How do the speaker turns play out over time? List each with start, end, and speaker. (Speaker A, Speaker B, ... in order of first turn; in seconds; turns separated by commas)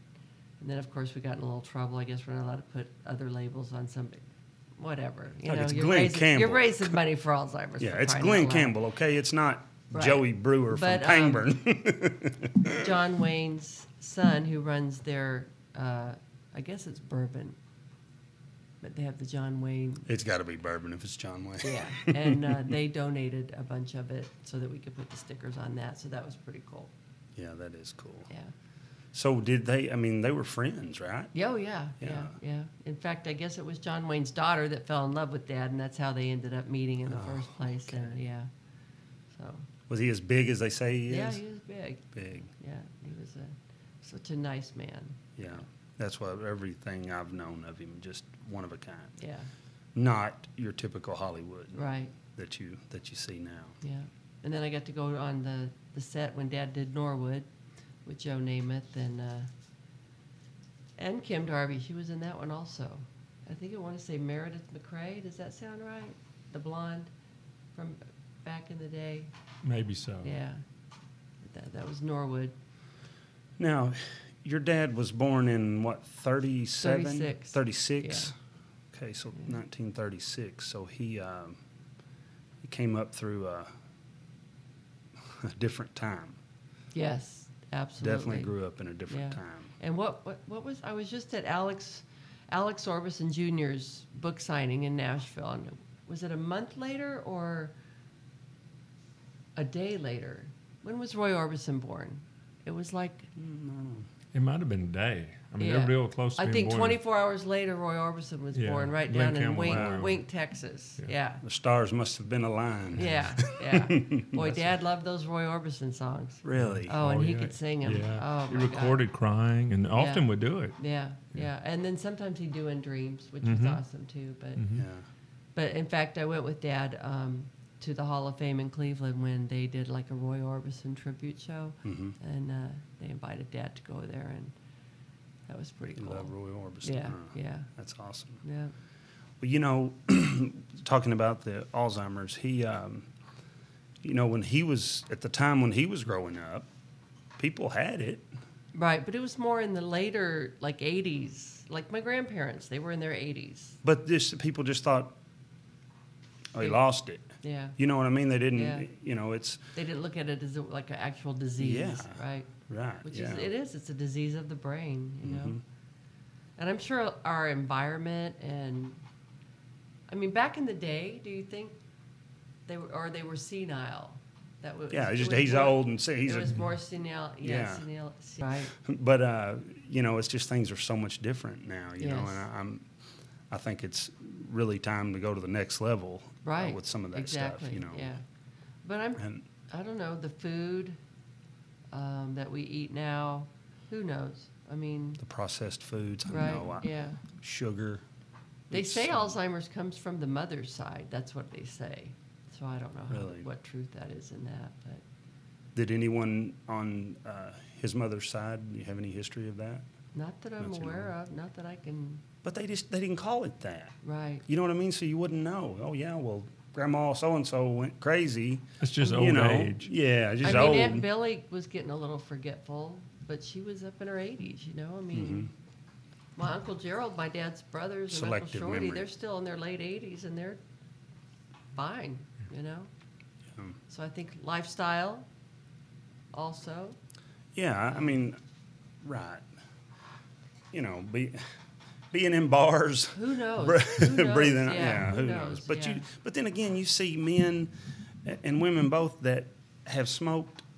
Speaker A: 0.6-8.8, Speaker B: 5.4-7.0, Speaker B: 7.8-12.9, Speaker A: 9.9-11.5, Speaker A: 12.7-17.6, Speaker A: 18.8-20.1, Speaker B: 20.1-22.6, Speaker A: 21.6-26.9, Speaker B: 27.4-28.3, Speaker B: 29.1-31.3, Speaker A: 31.3-38.5, Speaker B: 32.0-32.3, Speaker B: 37.1-38.1, Speaker A: 39.3-39.7, Speaker B: 39.9-41.4, Speaker A: 41.1-45.6, Speaker B: 42.1-42.5, Speaker B: 45.4-49.1, Speaker A: 49.2-49.5, Speaker B: 49.9-53.8, Speaker A: 51.7-52.1, Speaker A: 53.8-57.5, Speaker A: 58.0-59.5, Speaker A: 61.0-67.1, Speaker A: 67.7-69.3, Speaker C: 69.6-70.3, Speaker A: 70.2-70.6, Speaker A: 71.4-72.5, Speaker B: 73.6-78.3, Speaker A: 76.8-78.3, Speaker B: 78.9-81.6, Speaker B: 82.6-83.7, Speaker B: 85.2-86.4, Speaker A: 86.9-88.5, Speaker B: 88.0-89.7, Speaker A: 89.1-97.7, Speaker A: 99.5-103.3, Speaker B: 103.3-104.1, Speaker C: 104.3-107.0, Speaker A: 105.6-111.4, Speaker C: 108.5-110.2, Speaker B: 109.7-110.0, Speaker B: 111.4-114.7, Speaker A: 113.0-119.0, Speaker C: 113.0-113.5, Speaker B: 116.4-117.0, Speaker C: 116.6-120.8, Speaker A: 119.9-124.6, Speaker C: 123.4-123.8, Speaker C: 124.5-124.8, Speaker B: 124.8-125.0, Speaker A: 125.5-134.5, Speaker B: 131.8-132.2, Speaker A: 135.5-137.7, Speaker B: 135.9-138.4, Speaker A: 138.4-138.7, Speaker B: 139.4-143.1, Speaker B: 144.0-146.7, Speaker B: 147.4-148.3, Speaker A: 148.7-153.8, Speaker B: 153.8-155.2, Speaker B: 156.5-159.6, Speaker A: 157.4-157.8, Speaker A: 158.5-158.9, Speaker A: 159.7-162.5, Speaker B: 161.6-163.5, Speaker A: 163.0-165.6, Speaker B: 165.2-165.6, Speaker A: 166.6-169.0, Speaker A: 170.1-171.7, Speaker A: 172.7-178.8, Speaker B: 174.9-176.6, Speaker B: 177.4-177.8, Speaker B: 178.7-182.9, Speaker A: 182.0-182.4, Speaker B: 183.5-188.2, Speaker A: 186.4-188.2, Speaker A: 188.8-191.0, Speaker B: 189.2-189.4, Speaker A: 191.9-195.2, Speaker B: 195.2-198.0, Speaker A: 196.3-197.2, Speaker A: 198.7-205.0, Speaker B: 198.7-199.4, Speaker B: 203.1-203.4, Speaker B: 205.7-209.8, Speaker A: 210.1-212.2, Speaker B: 210.6-211.1, Speaker B: 212.4-221.1, Speaker A: 214.0-214.4, Speaker C: 218.8-219.9, Speaker A: 220.4-225.5, Speaker B: 225.1-225.5, Speaker A: 226.3-230.6, Speaker B: 228.1-229.0, Speaker A: 231.7-232.9, Speaker A: 233.9-235.3, Speaker A: 236.3-237.0, Speaker B: 237.5-238.4, Speaker B: 239.0-239.5, Speaker B: 240.7-241.4, Speaker B: 242.1-247.7, Speaker A: 243.1-246.1, Speaker B: 248.2-250.6